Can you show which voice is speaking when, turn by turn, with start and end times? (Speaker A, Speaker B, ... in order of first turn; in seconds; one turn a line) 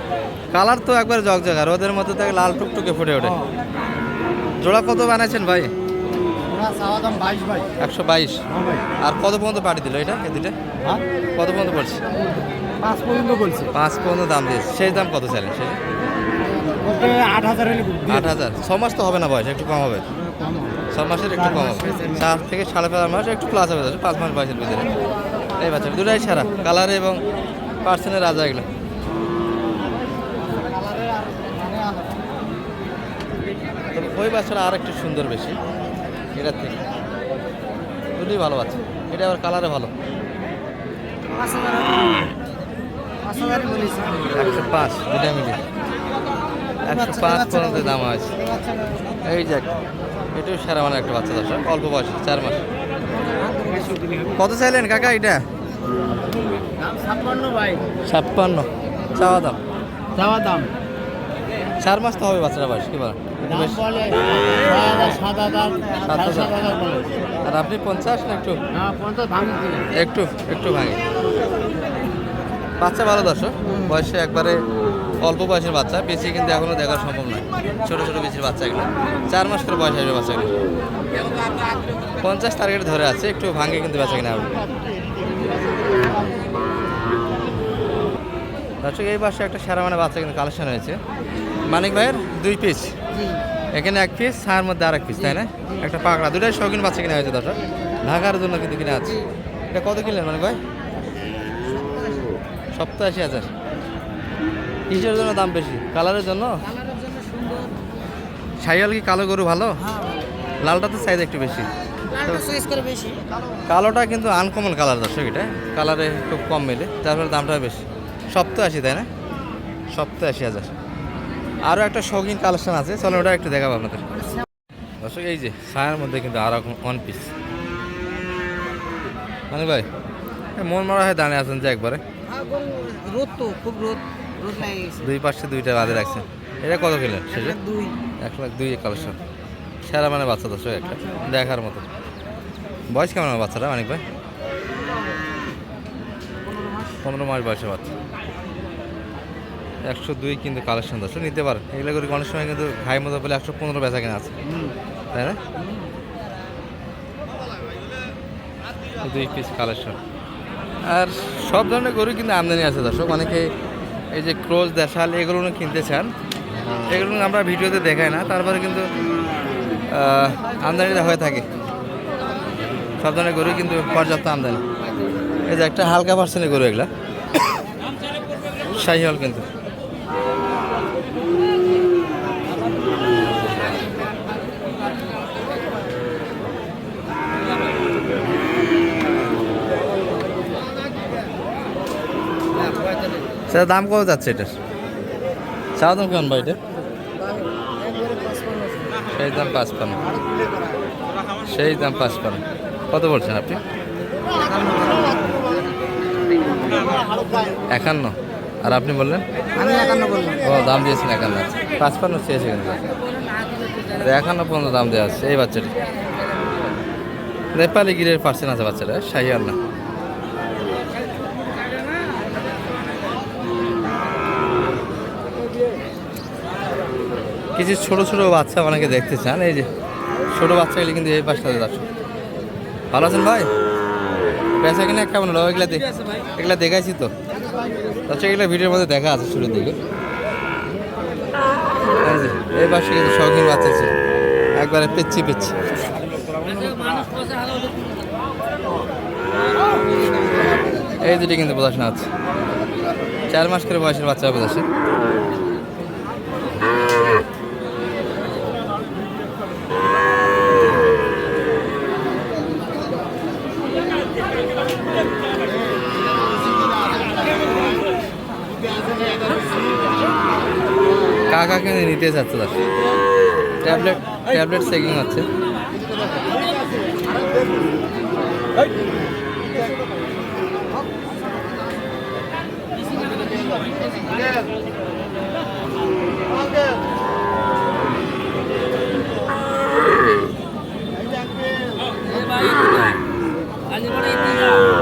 Speaker A: 0.5-3.4
Speaker A: 4.6-5.7
Speaker B: 6.5-7.6
Speaker A: 7.8-8.4
Speaker A: 9.0-10.5
Speaker A: 11.3-12.0
Speaker A: 13.7-15.8
Speaker C: 16.9-18.0
Speaker A: 18.1-20.0
Speaker B: 20.3-20.7
Speaker A: 20.9-24.9
Speaker B: 21.7-22.2
Speaker A: 25.6-27.2
Speaker A: 27.8-28.7
Speaker B: 30.6-32.1
Speaker A: 33.9-35.6
Speaker A: 36.3-36.8
Speaker A: 38.1-39.9
Speaker B: 41.3-42.2
Speaker B: 43.2-44.4
Speaker A: 44.3-45.6
Speaker A: 46.9-48.3
Speaker B: 46.9-49.0
Speaker A: 49.2-49.7
Speaker A: 50.3-52.6
Speaker B: 53.1-54.3
Speaker A: 54.3-55.4
Speaker B: 56.9-57.8
Speaker A: 58.0-59.6
Speaker B: 60.2-60.6
Speaker A: 61.8-63.9
Speaker B: 64.0-65.7
Speaker C: 64.8-65.7
Speaker A: 66.0-66.6
Speaker B: 66.3-67.0
Speaker A: 67.4-68.6
Speaker B: 68.8-69.8
Speaker A: 69.9-71.0
Speaker A: 72.8-74.6
Speaker B: 73.7-74.0
Speaker A: 75.2-80.5
Speaker A: 82.2-84.6
Speaker A: 88.8-91.0
Speaker A: 91.7-92.9
Speaker B: 93.1-93.4
Speaker A: 93.7-99.2
Speaker B: 95.2-95.8
Speaker A: 99.7-100.6
Speaker B: 101.8-102.2
Speaker A: 102.8-103.5
Speaker A: 104.9-106.6
Speaker B: 106.7-107.7
Speaker A: 108.6-109.8
Speaker B: 109.8-110.2
Speaker A: 110.6-111.7
Speaker B: 112.1-113.4
Speaker A: 113.7-119.1
Speaker A: 119.9-120.7
Speaker A: 121.6-124.0
Speaker A: 125.0-127.3
Speaker A: 129.5-129.9
Speaker A: 130.6-132.0
Speaker B: 132.3-135.1
Speaker A: 135.0-137.6
Speaker B: 137.3-137.9
Speaker A: 138.2-139.2
Speaker A: 139.8-141.8
Speaker A: 142.9-144.0
Speaker B: 146.5-147.0
Speaker A: 147.0-147.9
Speaker A: 149.8-154.3
Speaker A: 155.1-155.4
Speaker A: 159.0-160.0
Speaker A: 160.8-163.5
Speaker A: 164.1-166.1
Speaker A: 166.9-168.9
Speaker A: 169.9-171.5
Speaker A: 173.0-174.6
Speaker A: 175.5-176.9
Speaker A: 178.7-179.5
Speaker A: 193.5-194.5
Speaker A: 195.8-196.6
Speaker A: 199.1-200.0
Speaker A: 201.4-203.6
Speaker B: 204.4-205.4
Speaker A: 207.7-209.2
Speaker B: 209.6-210.5
Speaker A: 210.4-212.8
Speaker A: 213.9-215.7
Speaker A: 217.5-219.6
Speaker A: 227.6-229.7
Speaker A: 230.3-231.8
Speaker A: 232.9-233.5
Speaker A: 234.6-237.1
Speaker A: 238.1-239.8
Speaker A: 241.8-243.9
Speaker A: 244.6-245.6
Speaker C: 246.4-248.0
Speaker A: 251.0-252.1
Speaker A: 253.3-254.7
Speaker A: 271.3-272.6
Speaker A: 273.6-275.3
Speaker C: 292.0-293.0
Speaker C: 293.7-294.7